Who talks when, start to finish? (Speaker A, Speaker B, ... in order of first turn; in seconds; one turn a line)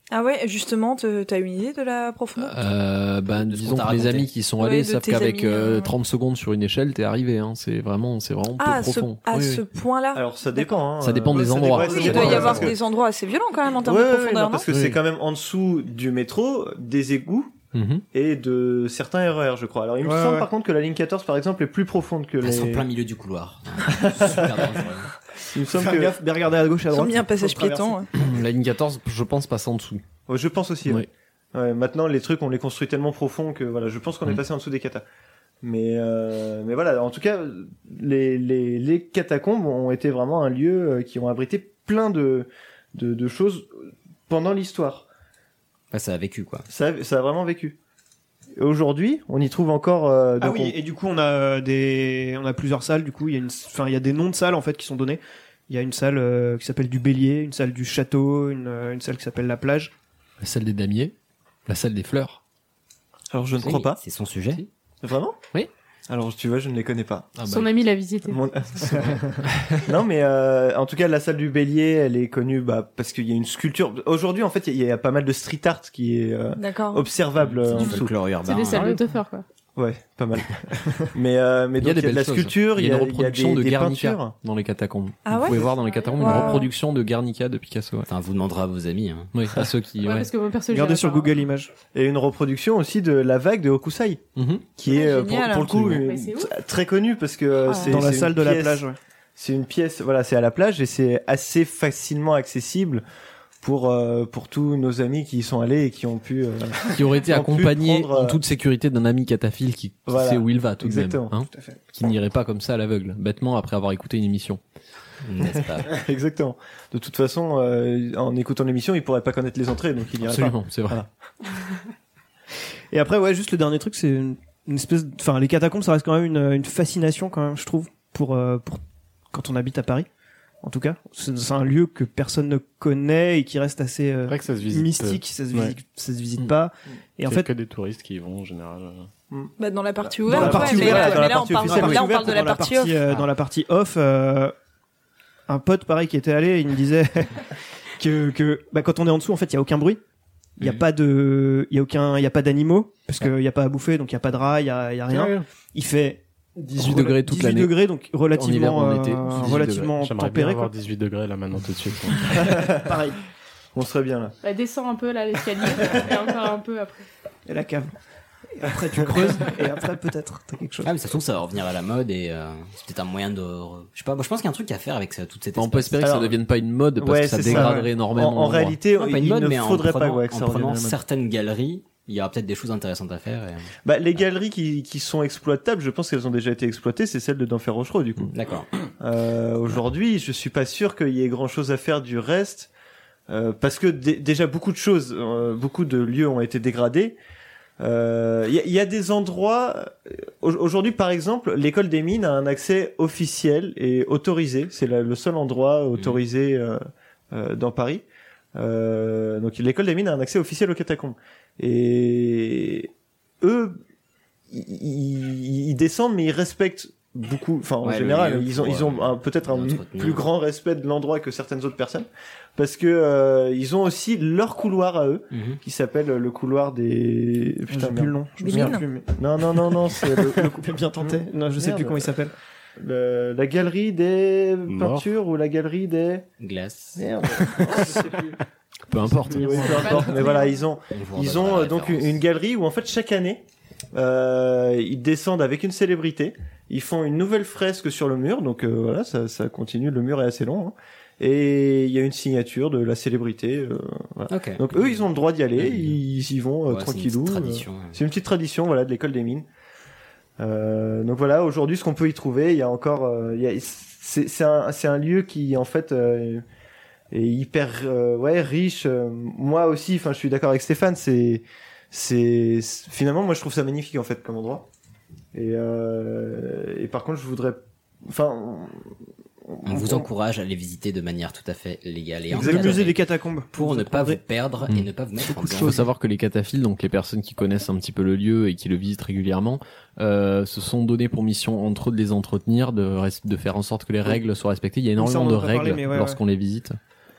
Speaker A: 0.1-2.6
Speaker B: 2.4-9.6
Speaker C: 3.3-4.3
Speaker A: 4.6-5.9
Speaker A: 8.6-10.8
Speaker D: 10.2-12.8
Speaker B: 11.0-12.7
Speaker A: 11.7-14.7
Speaker D: 13.8-17.6
Speaker B: 14.7-15.0
Speaker B: 17.7-18.0
Speaker D: 18.1-22.9
Speaker E: 20.0-20.5
Speaker C: 22.4-25.1
Speaker D: 23.9-24.8
Speaker D: 25.5-26.2
Speaker E: 25.6-28.1
Speaker A: 26.9-28.1
Speaker B: 28.1-30.0
Speaker D: 30.3-35.0
Speaker D: 35.6-43.7
Speaker D: 44.3-45.1
Speaker C: 45.9-46.7
Speaker D: 46.7-47.8
Speaker D: 48.6-50.8
Speaker E: 50.4-59.9
Speaker B: 60.4-61.1
Speaker B: 61.7-62.4
Speaker D: 63.3-64.0
Speaker C: 63.6-64.7
Speaker D: 65.0-65.4
Speaker D: 66.1-67.4
Speaker B: 67.4-67.7
Speaker F: 67.5-68.4
Speaker D: 68.3-78.1
Speaker B: 69.5-69.7
Speaker A: 76.6-77.0
Speaker C: 77.4-79.0
Speaker F: 77.7-79.5
Speaker D: 79.8-84.3
Speaker B: 81.8-88.1
Speaker A: 85.3-86.7
Speaker F: 85.5-86.7
Speaker C: 88.1-89.3
Speaker B: 89.3-90.3
Speaker F: 90.0-91.4
Speaker E: 90.7-91.7
Speaker D: 91.9-98.8
Speaker B: 94.4-94.7
Speaker A: 94.9-96.0
Speaker F: 95.9-96.5
Speaker A: 97.7-98.0
Speaker E: 97.8-99.0
Speaker D: 99.4-103.0
Speaker D: 103.6-108.4
Speaker B: 106.9-114.6
Speaker D: 110.1-111.3
Speaker C: 115.2-115.9
Speaker D: 115.8-121.1
Speaker B: 120.2-121.0
Speaker E: 122.9-130.1
Speaker E: 130.6-137.5
Speaker G: 134.3-135.8
Speaker G: 137.2-139.1
Speaker A: 139.6-143.0
Speaker D: 140.2-142.3
Speaker E: 140.2-144.5
Speaker E: 145.5-147.4
Speaker E: 148.0-150.0
Speaker E: 150.6-160.7
Speaker G: 155.1-155.5
Speaker B: 156.7-157.8
Speaker B: 158.3-160.0
Speaker G: 160.0-162.4
Speaker D: 162.4-162.9
Speaker E: 162.8-163.2
Speaker D: 163.8-164.3
Speaker F: 164.4-167.1
Speaker E: 167.5-167.9
Speaker E: 168.6-170.9
Speaker C: 170.8-176.2
Speaker B: 175.6-178.8
Speaker D: 176.0-176.4
Speaker D: 177.0-181.0
Speaker E: 177.4-177.9
Speaker C: 178.9-183.7
Speaker D: 183.8-188.3
Speaker C: 188.3-188.7
Speaker D: 189.0-192.7
Speaker D: 193.3-197.2
Speaker D: 197.8-212.9
Speaker C: 205.9-206.2
Speaker D: 213.4-213.8
Speaker D: 214.5-232.1
Speaker C: 217.8-220.3
Speaker C: 225.3-225.6
Speaker E: 227.7-232.3
Speaker A: 228.4-228.8
Speaker D: 232.8-236.3
Speaker G: 234.7-235.1
Speaker C: 236.4-237.0
Speaker D: 237.0-238.2
Speaker E: 237.7-238.2
Speaker B: 238.9-240.0
Speaker D: 239.3-243.4
Speaker E: 239.5-239.9
Speaker F: 239.7-240.6
Speaker C: 240.9-242.2
Speaker D: 243.9-259.5
Speaker C: 254.3-255.1
Speaker C: 255.6-256.0
Speaker C: 256.7-258.0
Speaker D: 260.4-266.4
Speaker D: 267.1-274.7
Speaker D: 275.3-278.9
Speaker D: 279.5-280.1
Speaker C: 279.6-283.0
Speaker E: 282.3-284.2
Speaker D: 282.4-282.9
Speaker C: 283.5-285.8
Speaker B: 284.7-296.8
Speaker E: 285.3-285.8
Speaker E: 295.0-296.2